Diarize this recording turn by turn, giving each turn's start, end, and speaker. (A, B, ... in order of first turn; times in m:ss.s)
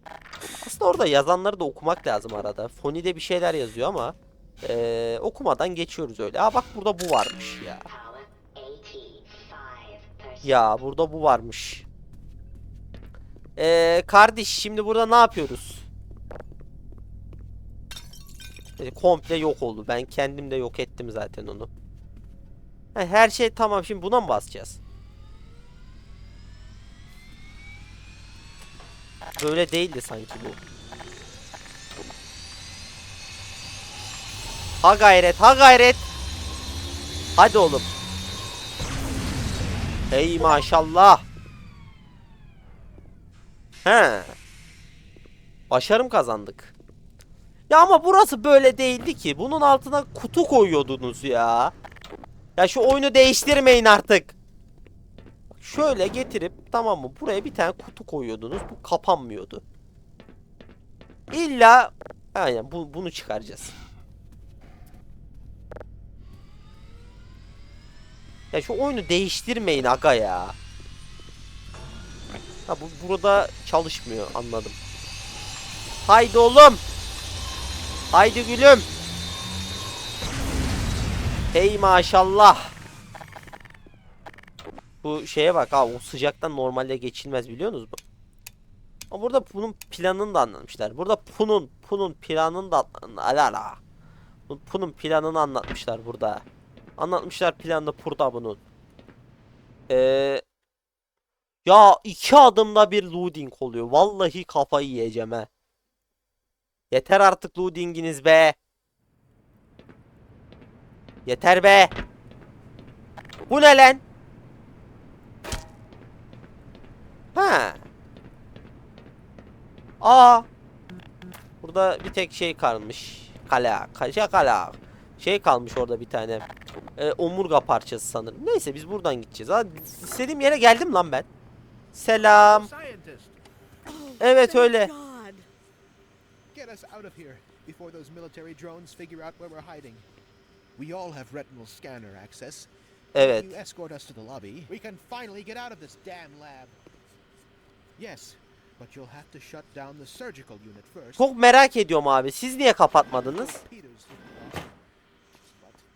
0:00.6-0:07.9 A
0:07.9-0:10.7 B
0:10.4-0:11.8 A
0:13.6-0:15.8 A
0:18.8-0:21.7 A
0:22.9-0:24.8 A
0:29.4-0:30.6 A
0:34.8-0:36.0 A
0:37.4-0:37.9 A
0:40.1-0:41.2 A
0:43.8-0:44.3 A
0:45.7-0:46.7 A
0:47.7-0:51.7 A
0:52.6-0:54.4 A
0:55.5-0:59.6 A
1:01.3-1:03.7 A
1:08.5-1:10.5 A
1:12.7-1:14.8 A
1:16.0-1:16.8 A
1:18.1-1:18.9 A
1:21.5-1:22.7 A
1:25.0-1:28.0 A
1:29.1-1:33.8 A
1:34.5-1:36.4 A
1:37.0-1:38.6 A
1:39.9-1:40.4 A
1:41.6-1:45.5 A
1:46.9-1:48.6 A
1:51.2-1:51.9 A
1:53.5-1:54.0 A
1:57.3-1:57.8 A
2:00.0-2:00.5 A
2:01.6-2:06.4 A
2:07.0-2:11.3 A
2:11.9-2:12.7 A
2:12.1-2:13.4 C
2:14.0-2:15.4 C
2:14.2-2:14.9 A
2:16.5-2:20.0 C
2:20.8-2:26.8 C
2:23.1-2:23.5 A
2:28.0-2:31.3 C
2:31.2-2:33.6 A
2:33.0-2:34.8 C
2:35.3-2:35.8 C